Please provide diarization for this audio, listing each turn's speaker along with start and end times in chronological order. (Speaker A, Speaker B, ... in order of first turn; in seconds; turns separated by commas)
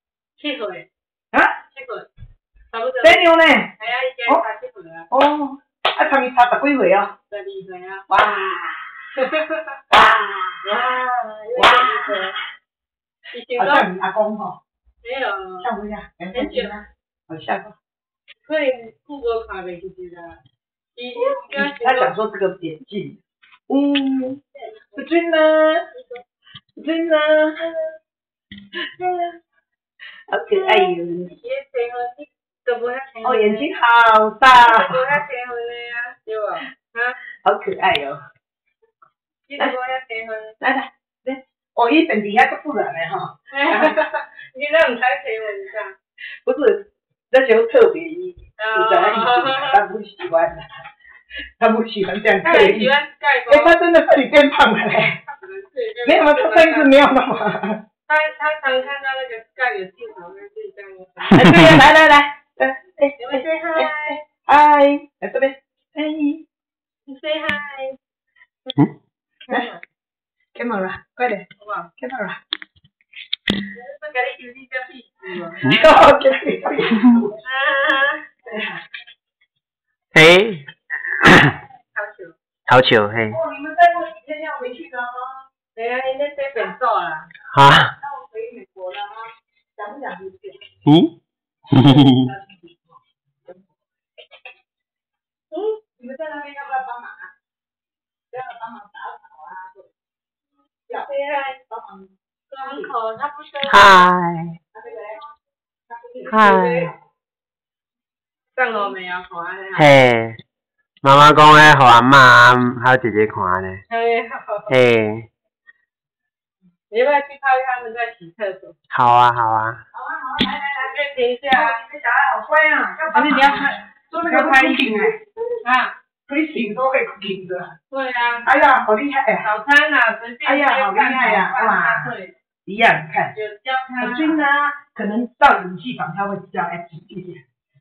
Speaker A: 0.4-0.9, Speaker A: 1.7-2.1, Speaker A: 2.7-5.1, Speaker B: 3.0-3.7, Speaker B: 5.1-7.1, Speaker A: 7.3-8.1, Speaker B: 8.1-8.7, Speaker A: 9.2-9.8, Speaker B: 9.9-10.6, Speaker A: 10.6-12.4, Speaker B: 11.6-12.2, Speaker A: 13.3-13.9, Speaker B: 13.6-14.6, Speaker A: 15.0-15.7, Speaker B: 15.6-17.8, Speaker A: 16.3-16.8, Speaker A: 18.4-20.4, Speaker A: 20.9-22.2, Speaker B: 21.2-23.2, Speaker B: 23.7-24.4, Speaker B: 24.9-25.8, Speaker A: 25.9-26.2, Speaker B: 26.8-27.9, Speaker B: 29.0-29.3, Speaker B: 30.3-31.3, Speaker A: 31.2-33.7, Speaker B: 33.2-35.2, Speaker A: 34.5-37.2, Speaker B: 37.5-38.2, Speaker A: 39.5-40.6, Speaker B: 40.6-44.0, Speaker A: 43.5-46.0, Speaker B: 46.5-50.7, Speaker A: 48.6-49.8, Speaker B: 51.6-52.9, Speaker A: 52.4-53.8, Speaker B: 53.5-55.2, Speaker A: 55.2-57.0, Speaker B: 56.0-57.8, Speaker A: 58.1-61.7, Speaker B: 61.3-66.4, Speaker C: 61.4-61.7, Speaker A: 63.2-64.2, Speaker A: 67.1-68.0, Speaker A: 69.5-69.8, Speaker B: 70.5-71.5, Speaker A: 71.6-71.9, Speaker B: 72.0-72.4, Speaker A: 73.8-76.0, Speaker B: 75.6-77.4, Speaker A: 77.4-78.2, Speaker B: 78.5-78.8, Speaker C: 80.1-80.7, Speaker C: 81.2-81.6, Speaker A: 82.0-82.3, Speaker C: 82.7-83.4, Speaker B: 83.3-85.5, Speaker A: 85.8-87.3, Speaker C: 87.5-87.9, Speaker B: 88.0-90.6, Speaker C: 90.8-91.1, Speaker C: 91.7-92.3, Speaker B: 91.8-92.7, Speaker A: 95.5-95.8, Speaker B: 96.0-97.3, Speaker B: 98.3-99.9, Speaker A: 101.0-101.6, Speaker B: 101.7-102.9, Speaker A: 102.5-104.1, Speaker C: 103.7-104.6, Speaker B: 104.7-105.2, Speaker B: 105.9-106.9, Speaker A: 106.3-106.8, Speaker C: 106.3-106.9, Speaker A: 108.5-109.9, Speaker C: 109.8-110.4, Speaker C: 111.0-113.8, Speaker A: 113.9-114.7, Speaker C: 114.7-115.3, Speaker A: 116.9-118.8, Speaker C: 118.9-119.8, Speaker B: 119.9-121.0, Speaker A: 120.8-121.8, Speaker B: 121.5-125.2, Speaker A: 123.1-125.9, Speaker B: 126.3-127.8, Speaker A: 127.9-128.5, Speaker B: 128.4-129.5, Speaker A: 129.4-132.3, Speaker B: 130.4-132.1, Speaker B: 132.7-133.3, Speaker A: 133.3-134.4, Speaker B: 134.0-137.4